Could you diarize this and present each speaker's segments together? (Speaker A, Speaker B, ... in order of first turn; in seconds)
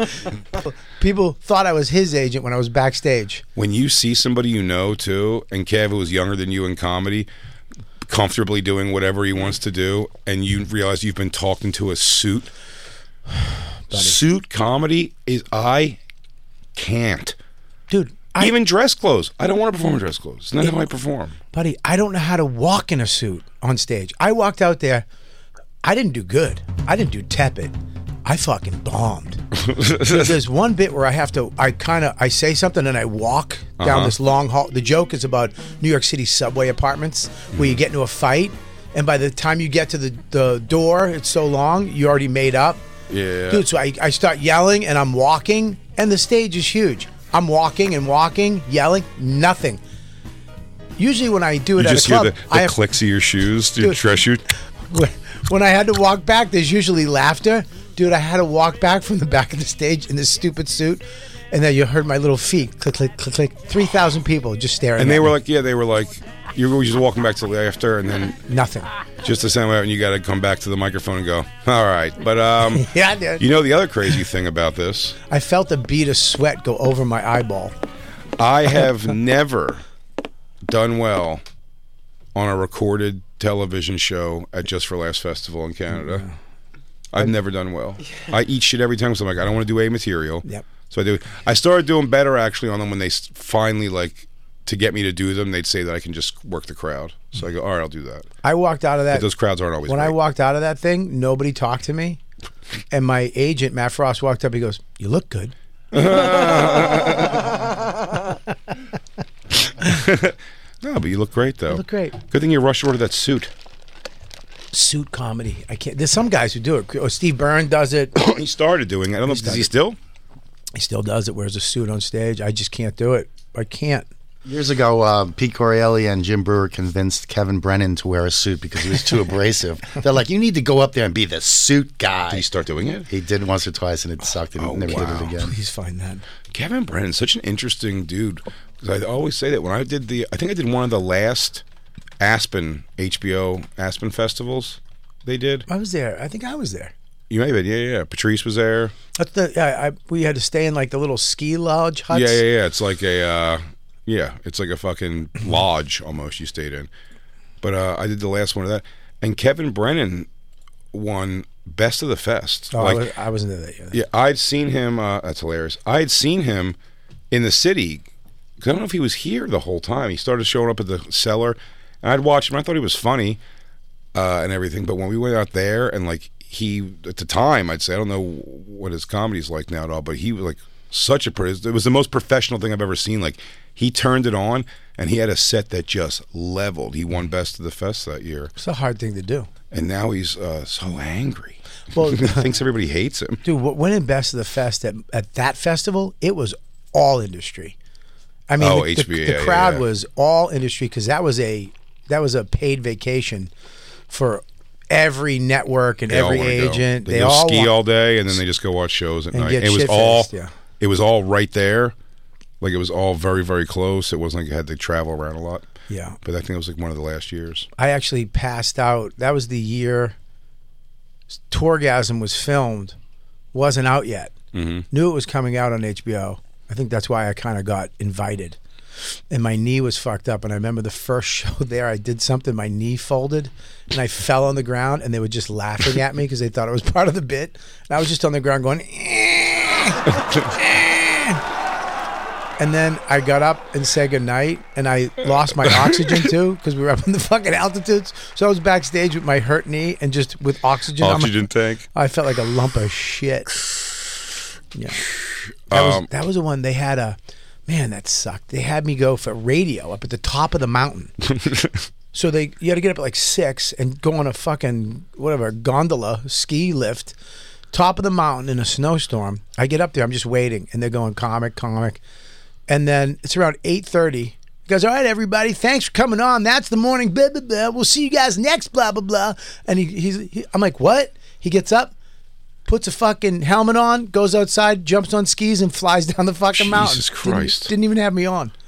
Speaker A: 0.5-3.4, 13.9-14.2, 17.9-18.6, 21.5-25.1, 25.8-27.7, 28.2-29.4, 30.0-42.8, 43.5-49.8, 51.0-52.8, 54.9-65.3, 68.5-68.9, 72.7-73.5, 75.3-77.7, 85.9-86.3, 98.4-99.3, 99.9-102.2, 102.9-105.5, 111.7-112.2, 114.7-118.2, 119.3-119.7, 120.8-124.1, 134.9-136.2, 145.7-146.9, 149.2-152.4, 162.7-164.0, 188.6-189.5, 191.9-192.5, 193.4-197.8, 198.5-203.5, 204.1-207.8, 209.3-210.5, 215.9-216.2, 217.8-220.2, 221.5-223.0, 223.5-224.3, 224.9-228.6, 229.3-241.4, 242.6-253.6, 254.7-255.1, 255.7-261.1, 262.1-267.1, 267.7-272.0, 272.7-281.9, 282.7-288.5
Speaker B: 3.6-7.3, 8.1-12.5, 13.9-16.0, 16.8-17.4, 18.4-21.4, 29.6-30.4, 33.8-34.2, 37.5-37.8, 43.1-43.6, 51.8-54.4, 65.0-68.4, 69.2-75.2, 78.4-79.8, 80.7-81.4, 82.3-86.3, 87.1-98.3, 99.1-100.2, 105.9-107.5, 109.8-113.5, 118.2-120.0, 132.3-133.1, 134.6-135.3, 136.5-141.6, 142.2-145.7, 147.3-148.9, 152.1-156.9, 157.6-160.3, 160.9-163.1, 163.9-166.8, 167.3-168.1, 168.6-173.4, 174.1-188.5, 189.7-193.4, 198.6-199.8, 206.1-211.9, 212.6-215.7, 216.2-217.7, 224.5-224.9, 245.6-246.2, 251.0-251.8, 255.7-256.1, 261.3-261.8, 286.5-287.7
Speaker C: 124.5-132.4, 133.1-135.6